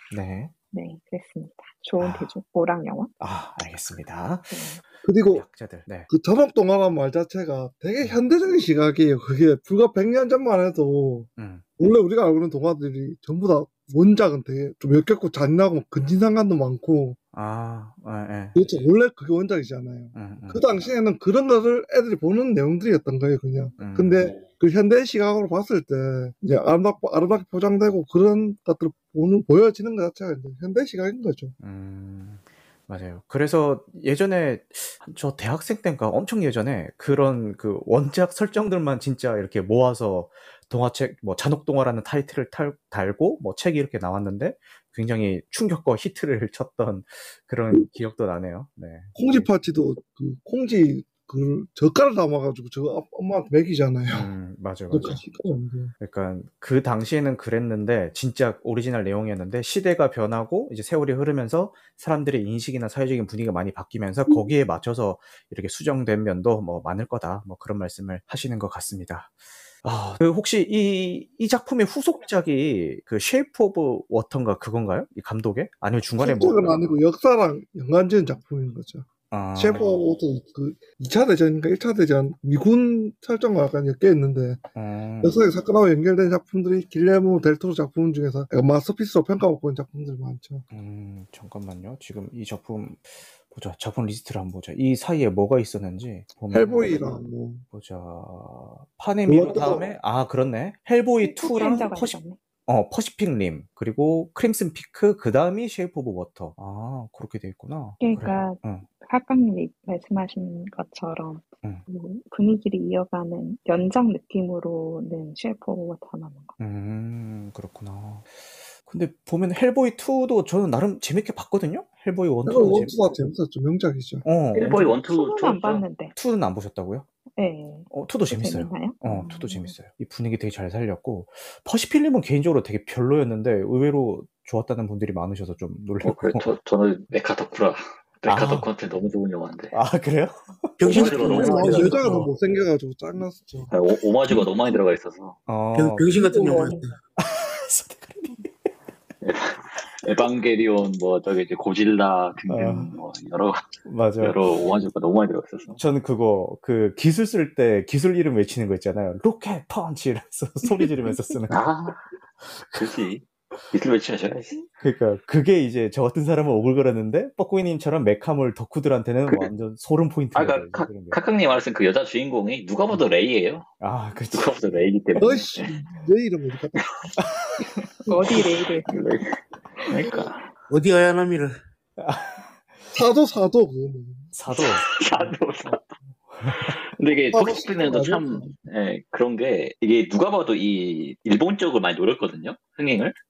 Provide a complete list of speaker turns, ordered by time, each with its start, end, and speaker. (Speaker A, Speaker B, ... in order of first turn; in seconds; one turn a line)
Speaker A: 0.1-0.5
Speaker B: 0.7-3.1
Speaker A: 2.0-2.4
Speaker A: 3.2-4.7
Speaker B: 4.5-4.8
Speaker C: 5.0-5.5
Speaker A: 5.2-6.1
Speaker C: 6.1-17.2
Speaker A: 11.4-11.6
Speaker A: 17.3-18.6
Speaker C: 18.6-31.6
Speaker A: 20.1-20.6
Speaker A: 23.8-24.3
Speaker A: 31.6-49.5
Speaker C: 47.7-48.0
Speaker C: 49.1-54.3
Speaker A: 54.1-55.2
Speaker C: 54.9-55.9
Speaker A: 56.0-76.8
Speaker C: 76.2-84.6
Speaker A: 79.3-80.0
Speaker A: 84.8-85.4
Speaker C: 85.2-90.7
Speaker A: 90.7-97.0
Speaker C: 96.5-97.6
Speaker A: 97.7-108.9
Speaker C: 99.3-99.9
Speaker B: 101.2-102.4
Speaker B: 108.0-116.5
Speaker A: 116.6-122.9
Speaker C: 122.5-124.2
Speaker A: 124.2-124.8
Speaker D: 124.5-125.8
Speaker B: 124.6-126.1
Speaker A: 126.2-127.0
Speaker B: 127.4-129.7
Speaker A: 127.9-136.5
Speaker D: 136.0-139.7
Speaker A: 138.3-138.7
Speaker A: 139.7-142.3
Speaker E: 140.8-142.1
Speaker D: 140.8-142.1
Speaker C: 140.9-144.4
Speaker D: 143.7-145.4
Speaker A: 145.5-146.7
Speaker E: 145.7-146.9
Speaker C: 146.3-146.8
Speaker A: 147.2-148.7
Speaker D: 149.2-153.7
Speaker A: 152.5-152.9
Speaker A: 153.8-154.4
Speaker D: 154.2-155.8
Speaker A: 155.8-161.6
Speaker D: 161.5-162.0
Speaker A: 162.4-162.8
Speaker D: 162.7-164.6
Speaker A: 164.8-171.2
Speaker D: 170.3-173.7
Speaker A: 173.8-175.4
Speaker D: 174.3-175.7
Speaker C: 175.2-176.8
Speaker A: 177.2-177.7
Speaker B: 178.0-178.9
Speaker D: 178.2-179.2
Speaker D: 179.8-180.4
Speaker C: 179.9-180.3
Speaker E: 180.7-181.6
Speaker A: 182.0-182.5
Speaker C: 182.9-184.3
Speaker A: 184.3-184.9
Speaker D: 184.5-185.8
Speaker D: 186.5-193.2
Speaker C: 187.3-188.6